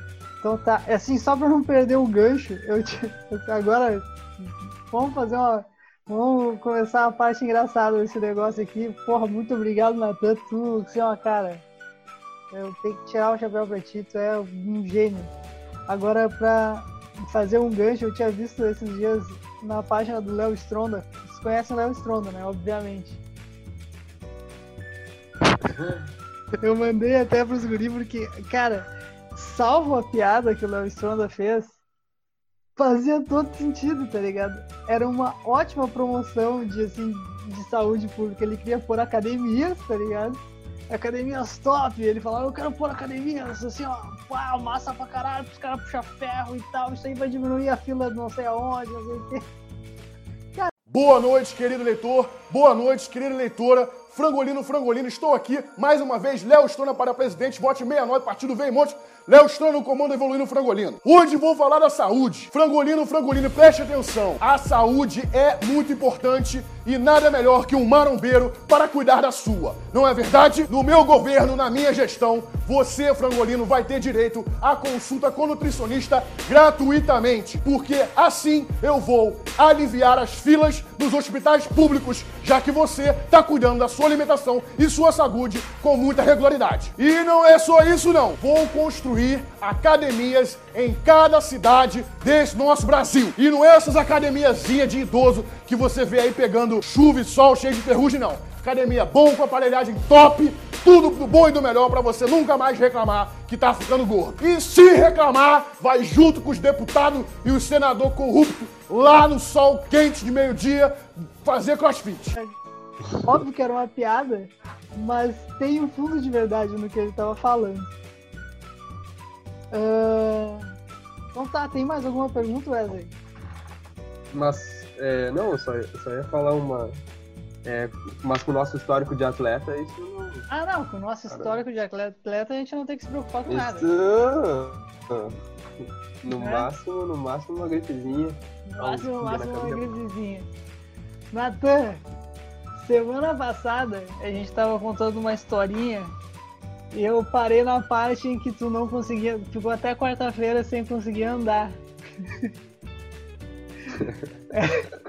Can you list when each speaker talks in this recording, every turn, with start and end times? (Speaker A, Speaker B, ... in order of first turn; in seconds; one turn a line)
Speaker A: 0.4-11.6
Speaker A: 12.5-15.3
Speaker A: 15.9-23.2
Speaker A: 26.6-31.8
Speaker A: 32.8-49.4
Speaker B: 50.9-112.4
Speaker A: 113.2-117.9
Speaker A: 119.7-120.7
Speaker A: 121.3-123.1
Speaker C: 124.3-127.0
Speaker C: 127.7-130.5
Speaker A: 130.5-133.9
Speaker C: 131.3-131.6
Speaker C: 133.5-135.4
Speaker C: 136.2-139.9
Speaker A: 136.3-136.7
Speaker A: 138.7-140.5
Speaker A: 141.3-142.0
Speaker A: 142.8-146.1
Speaker A: 146.9-151.8
Speaker A: 154.5-154.9